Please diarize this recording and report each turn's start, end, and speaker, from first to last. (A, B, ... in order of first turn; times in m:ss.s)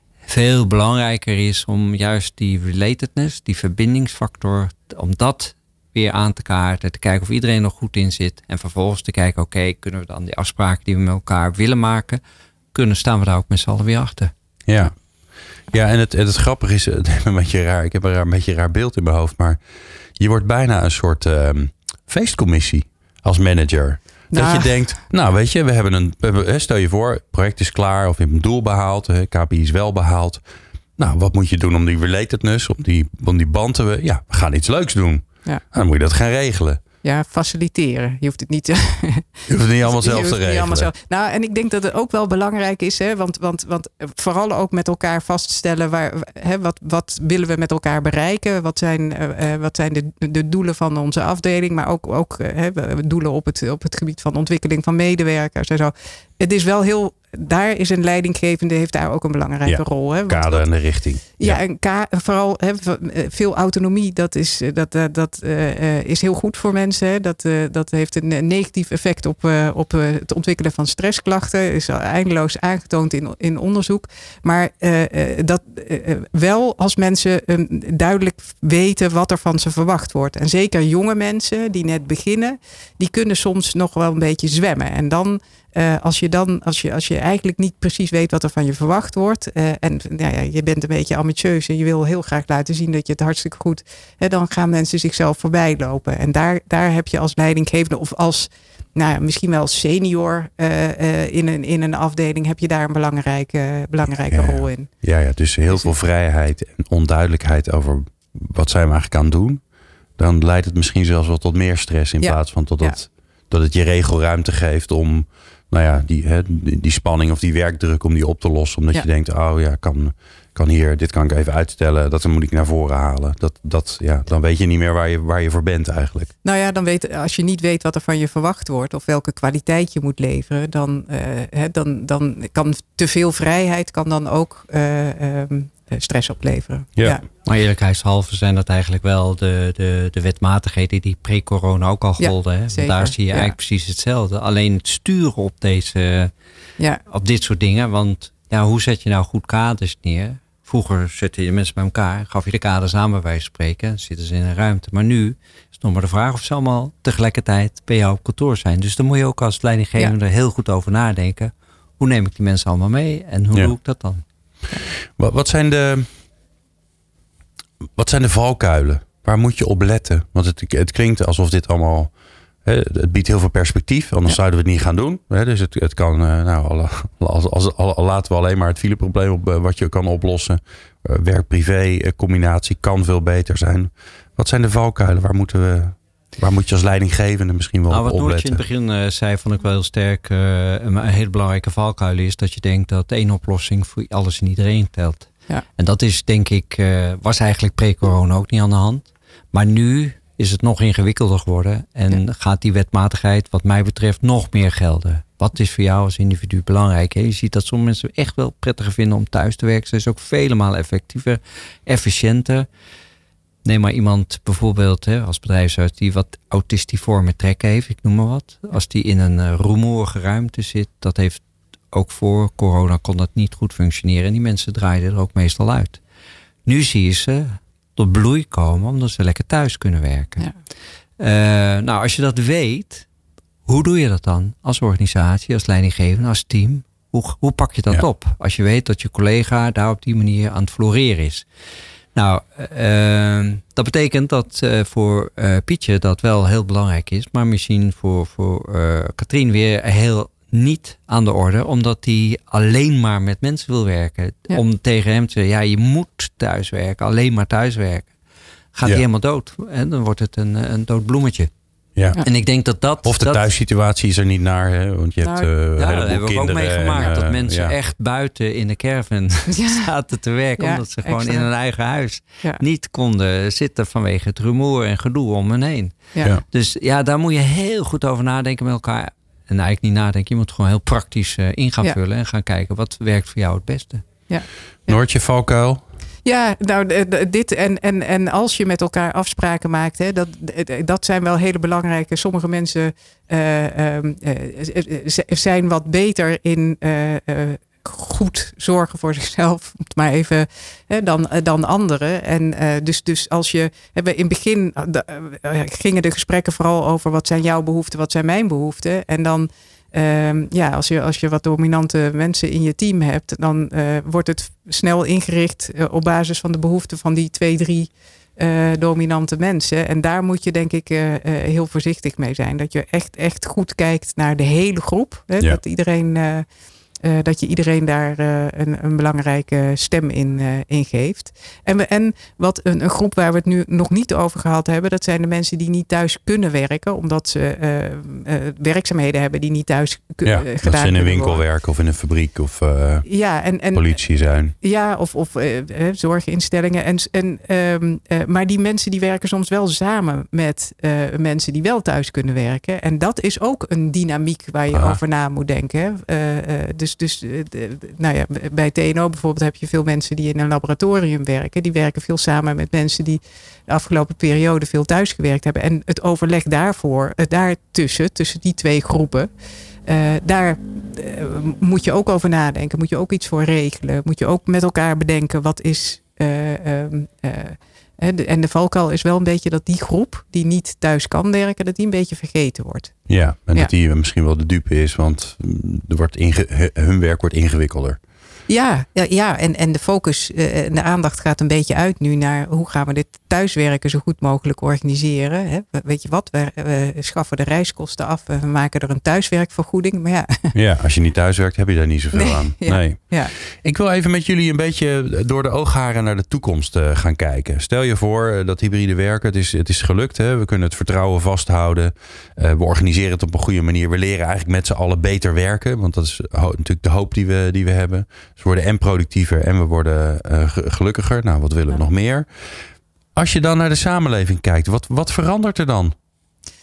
0:00.3-0:12.2 A
0:12.7-0:14.3 A
0:14.7-0:15.0 B
0:15.7-0:19.6 B
0:20.2-0:30.4 B
0:24.3-0:24.8 C
0:31.0-0:36.8 B
0:37.0-1:00.7 C
0:39.5-0:40.9 B
0:59.6-1:01.6 B
1:01.4-1:44.9 C
1:44.3-1:49.6 B
1:50.2-2:06.3 B
1:52.2-1:53.0 C
2:06.4-2:17.2 C
2:17.4-2:26.3 A
2:22.2-2:23.6 C
2:27.1-2:44.2 A
2:45.2-2:46.1 B
2:48.0-2:52.1 B
2:52.6-3:08.6 B
3:07.9-3:32.7 A
3:33.6-3:46.0 A
3:46.6-3:50.5 A
3:51.2-3:53.1 A
3:53.7-4:01.4 A
4:02.2-4:18.1 A
4:18.7-4:21.5 A
4:22.0-4:22.2 B
4:22.2-4:23.5 A
4:23.0-4:27.8 B
4:25.2-4:25.5 C
4:25.8-4:44.1 A
4:29.5-4:29.9 C
4:30.6-4:31.5 C
4:44.3-4:45.0 C
4:44.9-4:45.8 B
4:46.2-5:26.4 C
5:27.0-5:41.4 C
5:40.2-5:43.1 B
5:43.0-5:44.0 C
5:43.7-5:44.6 B
5:44.6-6:09.3 C
5:54.7-5:55.0 B
6:09.9-6:23.0 C
6:23.1-6:28.0 B
6:28.5-6:40.6 C
6:40.5-7:02.3 B
6:42.2-6:43.3 C
7:03.2-7:05.9 B